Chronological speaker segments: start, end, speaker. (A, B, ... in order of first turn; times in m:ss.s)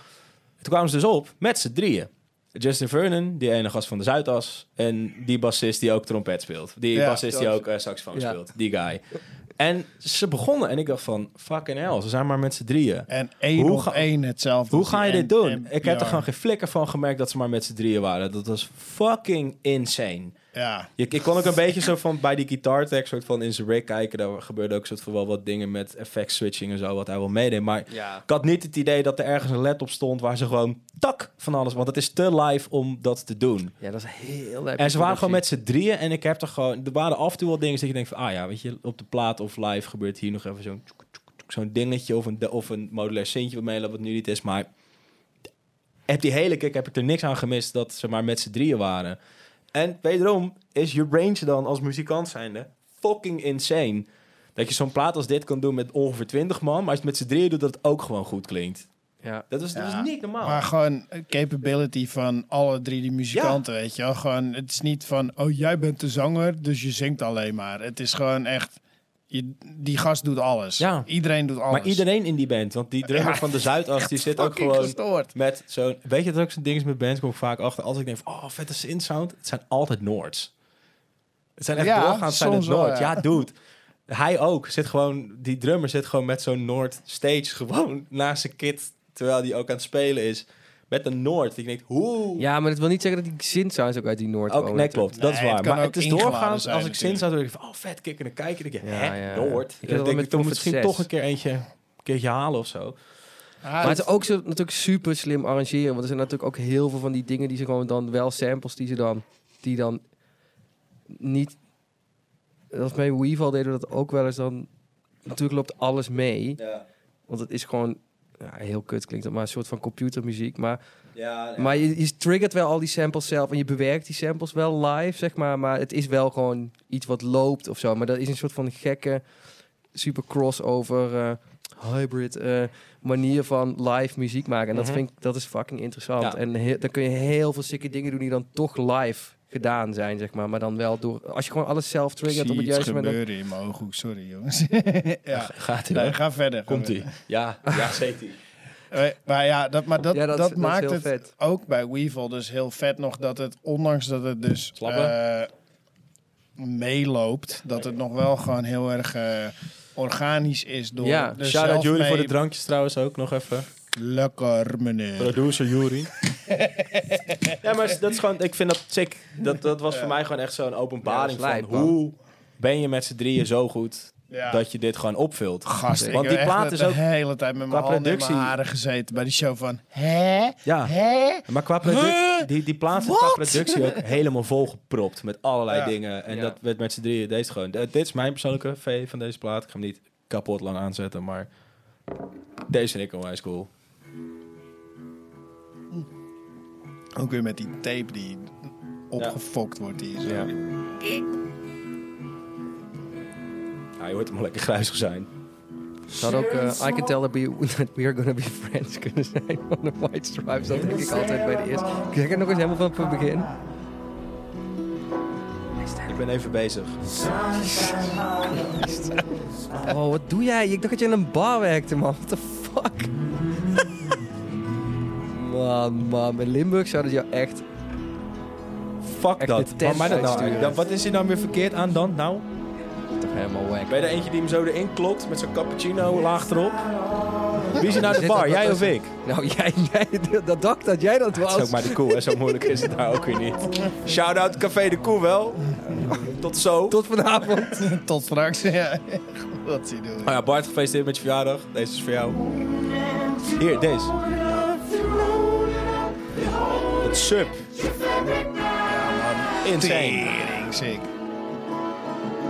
0:00.6-0:09.0 A
0:06.9-0:07.3 B
0:07.3-0:07.6 C
0:09.6-0:14.0 A
0:13.1-0:16.3 B
0:14.7-0:20.3 A
0:20.5-0:20.9 B
0:21.0-0:33.7 A
0:27.9-0:28.2 C
0:33.8-0:35.4 C
0:34.8-0:44.7 A
0:46.1-0:49.2 A
0:49.7-0:58.8 A
0:59.5-1:00.6 A
0:59.7-1:08.8 B
1:03.3-1:03.6 A
1:09.3-1:12.0 B
1:10.8-1:11.1 A
1:11.7-1:20.5 A
1:13.1-1:15.3 B
1:21.6-1:23.5 A
1:21.7-1:23.3 B
1:24.1-1:32.4 A
1:32.4-1:35.1 C
1:34.5-1:43.0 A
1:35.2-1:37.2 B
1:38.8-1:41.1 C
1:43.6-1:44.0 B
1:43.8-1:50.0 C
1:51.1-1:51.6 C
1:52.7-1:54.7 C
1:55.2-1:56.6 C
1:56.6-1:56.8 A
1:57.3-2:00.8 C
2:01.2-2:01.8 A
2:01.6-2:09.2 C
2:09.9-2:23.2 C
2:14.7-2:15.0 A
2:22.2-2:27.1 B
2:25.3-2:28.4 A
2:28.9-2:35.5 B
2:30.1-2:31.3 C
2:34.8-2:35.1 A
2:36.6-2:42.3 B
2:41.0-2:41.4 C
2:41.4-2:43.7 A
2:43.9-2:45.4 B
2:45.2-2:46.1 A
2:46.3-2:47.6 B
2:47.6-2:57.0 A
2:51.0-2:52.0 C
2:54.3-2:54.6 B
2:55.6-3:02.5 B
2:55.9-2:56.2 C
2:57.7-2:58.6 A
3:00.6-3:11.5 A
3:03.0-3:04.0 B
3:06.3-3:06.6 C
3:12.7-3:13.7 A
3:17.2-3:20.5 B
3:20.2-3:20.5 C
3:24.0-3:25.3 A
3:26.1-3:33.5 C
3:30.7-3:31.2 A
3:36.0-3:37.0 A
3:37.4-3:43.1 C
3:45.3-3:47.6 C
3:49.0-3:52.4 A
3:49.4-3:50.8 C
3:53.2-3:54.1 C
3:53.9-3:56.8 A
3:57.7-3:59.1 A
3:57.8-4:02.6 C
4:01.4-4:07.0 A
4:05.9-4:06.3 C
4:06.9-4:07.9 C
4:07.8-4:10.4 B
4:10.2-4:12.4 A
4:13.6-4:14.2 A
4:17.0-4:17.7 A
4:18.8-4:21.1 B
4:19.6-4:20.4 A